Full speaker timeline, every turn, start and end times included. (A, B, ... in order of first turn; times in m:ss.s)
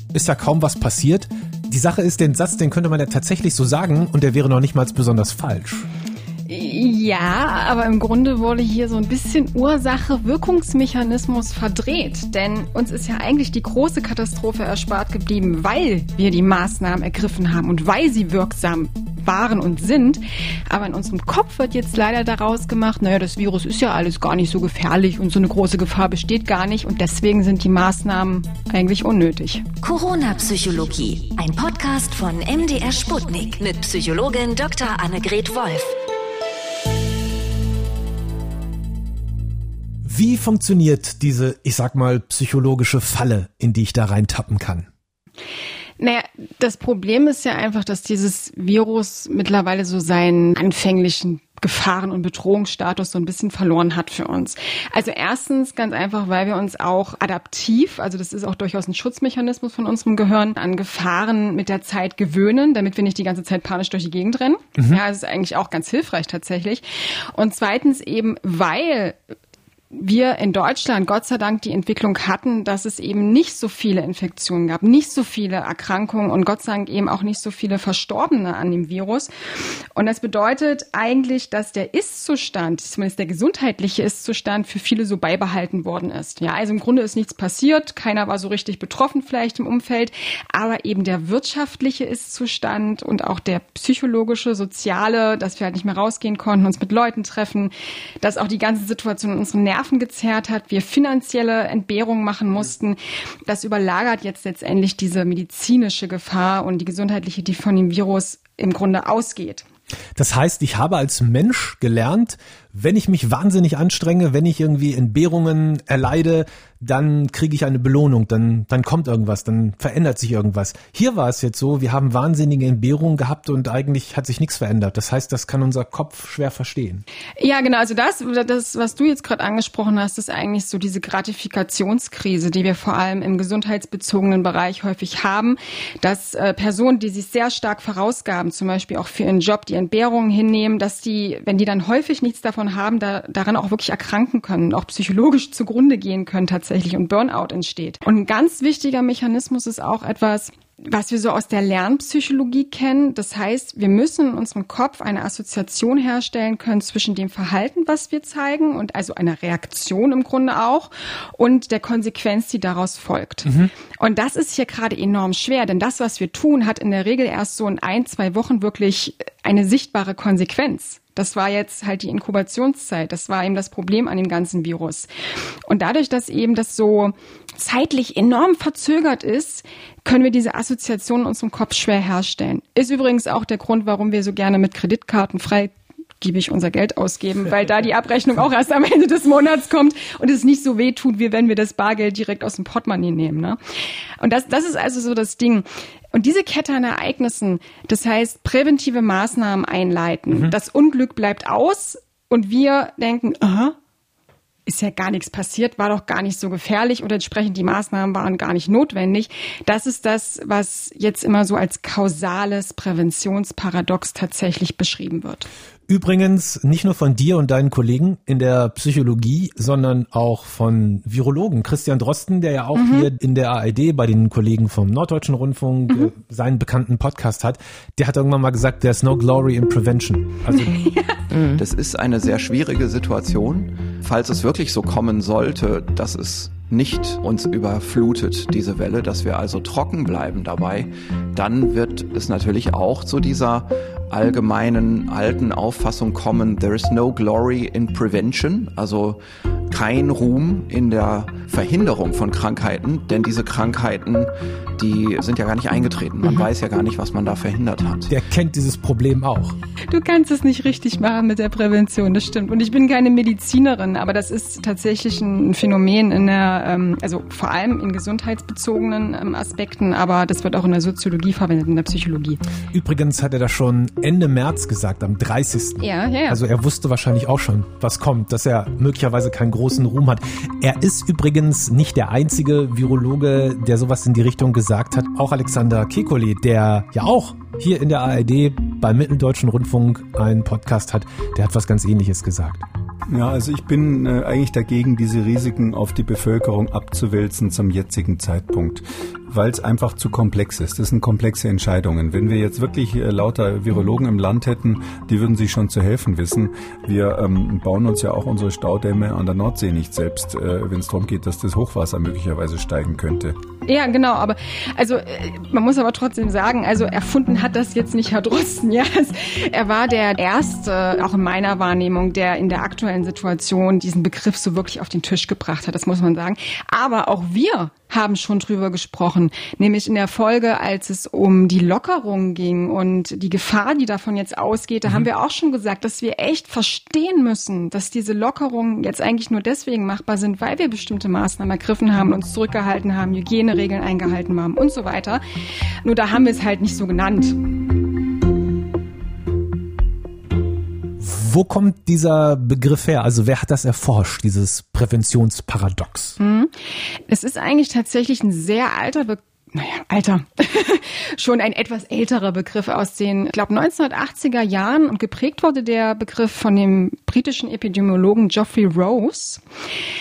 0:00.1-0:05.8 A
0:06.5-0:29.7 B
0:29.8-0:35.9 C
0:40.0-0:44.9 A
0:46.0-1:09.2 B
1:09.9-1:19.3 B
1:19.9-1:49.6 B
1:50.2-2:07.0 A
2:07.4-2:55.1 B
2:55.7-3:13.6 B
3:14.2-3:23.7 B
3:24.7-3:35.5 B
3:35.9-3:50.7 A
3:42.7-3:43.1 B
3:50.5-3:51.2 B
3:51.5-4:18.1 D
4:18.1-4:19.6 A
4:19.9-4:32.4 B
4:32.7-4:52.6 A
4:35.8-4:36.4 B
4:53.1-5:13.4 E
5:13.6-5:45.2 B
5:45.8-5:47.4 B
5:51.0-5:56.2 A
5:56.2-5:56.5 B
5:57.1-6:09.4 B